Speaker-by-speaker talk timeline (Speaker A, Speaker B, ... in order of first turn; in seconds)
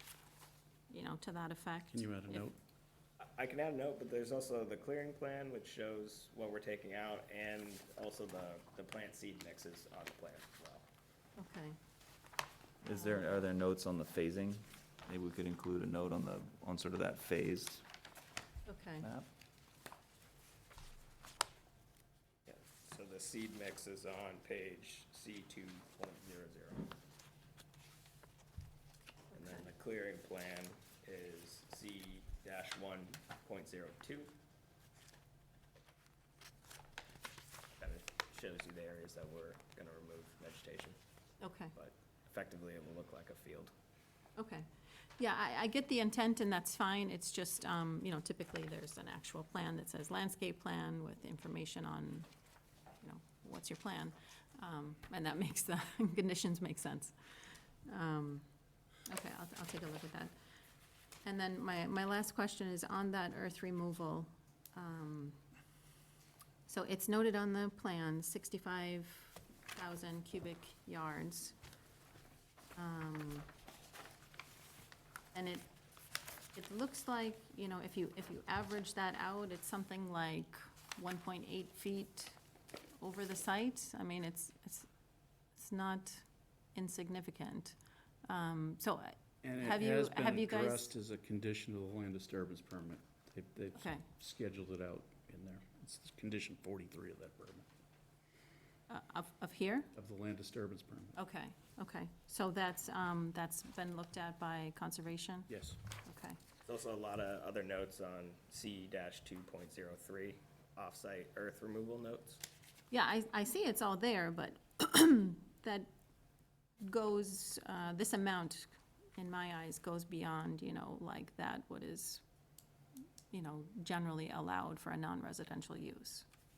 Speaker A: 0.9-2.5, 11.4-11.8, 12.9-13.4, 18.7-19.1, 41.4-41.7, 44.4-52.3, 53.0-57.2, 57.9-58.5, 59.1-60.3, 61.2-65.4, 66.7-71.6, 72.8-73.5, 75.3-75.7, 76.5-82.4, 83.0-84.9, 85.5-87.8, 88.3-90.9, 93.8-94.0, 98.9-99.9, 101.2-105.5, 106.0-106.4, 112.9-115.9, 116.8-122.2, 123.3-126.3
Speaker B: 1.9-2.6, 89.4-97.7, 100.0-101.2, 105.5-105.8
Speaker C: 3.2-10.8, 22.5-26.9, 29.3-34.3, 37.8-41.0, 41.8-43.7, 106.7-112.4
Speaker D: 12.8-17.8, 19.0-19.3